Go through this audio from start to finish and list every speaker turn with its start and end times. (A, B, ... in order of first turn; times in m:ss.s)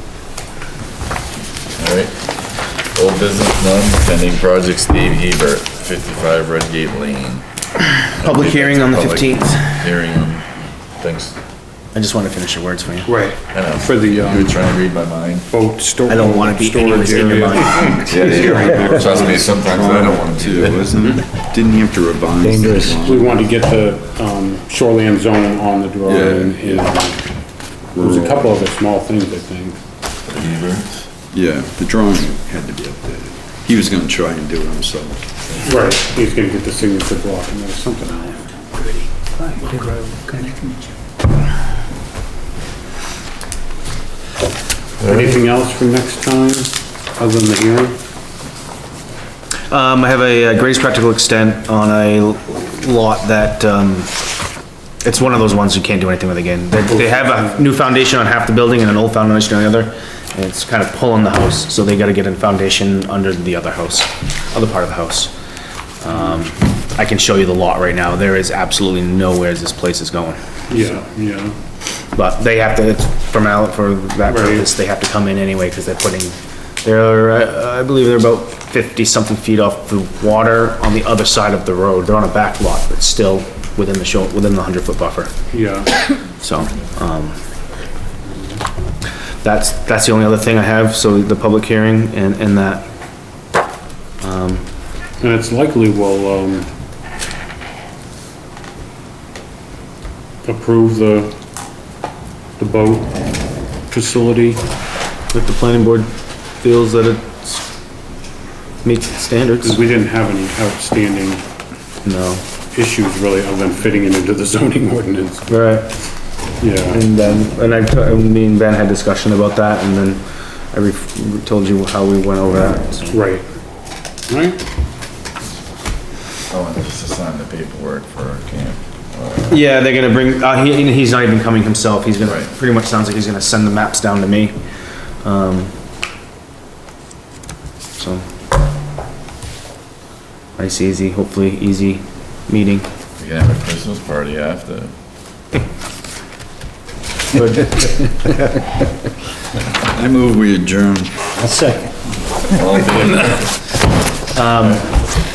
0:01.8-0:02.1 A
0:02.9-0:07.4 A
0:08.2-0:10.5 A
0:08.2-0:09.8 B
0:11.0-0:11.3 A
0:11.9-0:13.1 B
0:13.0-0:14.6 C
0:13.5-0:15.5 A
0:15.5-0:19.3 C
0:16.1-0:18.4 B
0:17.9-0:20.9 A
0:19.0-0:23.3 D
0:22.9-0:27.2 C
0:26.0-0:26.9 D
0:27.9-0:28.6 D
0:28.0-0:29.8 C
0:30.3-0:31.0 A
0:31.3-0:35.2 D
0:35.6-0:40.5 C
0:45.0-0:48.0 C
0:49.7-0:54.1 B
0:55.0-1:05.3 B
0:56.9-0:57.5 C
1:06.0-1:10.8 B
1:10.7-1:11.6 C
1:12.1-1:25.3 B
1:14.2-1:14.6 C
1:25.5-1:25.9 C
1:26.4-1:27.4 B
1:29.4-1:32.9 B
1:34.2-1:34.6 B
1:35.2-1:36.7 C
1:40.4-1:41.3 C
1:42.6-1:43.1 C
1:43.9-1:44.6 C
1:45.3-1:46.1 B
1:46.6-1:47.6 B
1:48.8-1:49.8 B
1:49.6-1:51.4 C
1:52.0-1:52.4 B
1:52.7-1:55.4 C
1:55.5-1:55.9 B
1:56.6-1:57.0 C
1:56.9-2:00.2 B
2:00.7-2:03.2 B
2:03.1-2:03.4 C
2:04.3-2:04.6 C
2:06.5-2:09.6 A
2:09.5-2:14.5 B
2:12.2-2:12.5 A
2:15.2-2:15.7 B
2:18.0-2:18.2 B
2:20.6-2:22.8 B
2:23.2-2:24.9 A
2:27.4-2:28.1 B
2:29.9-2:31.1 D
2:32.5-2:33.5 A
2:34.3-2:34.9 B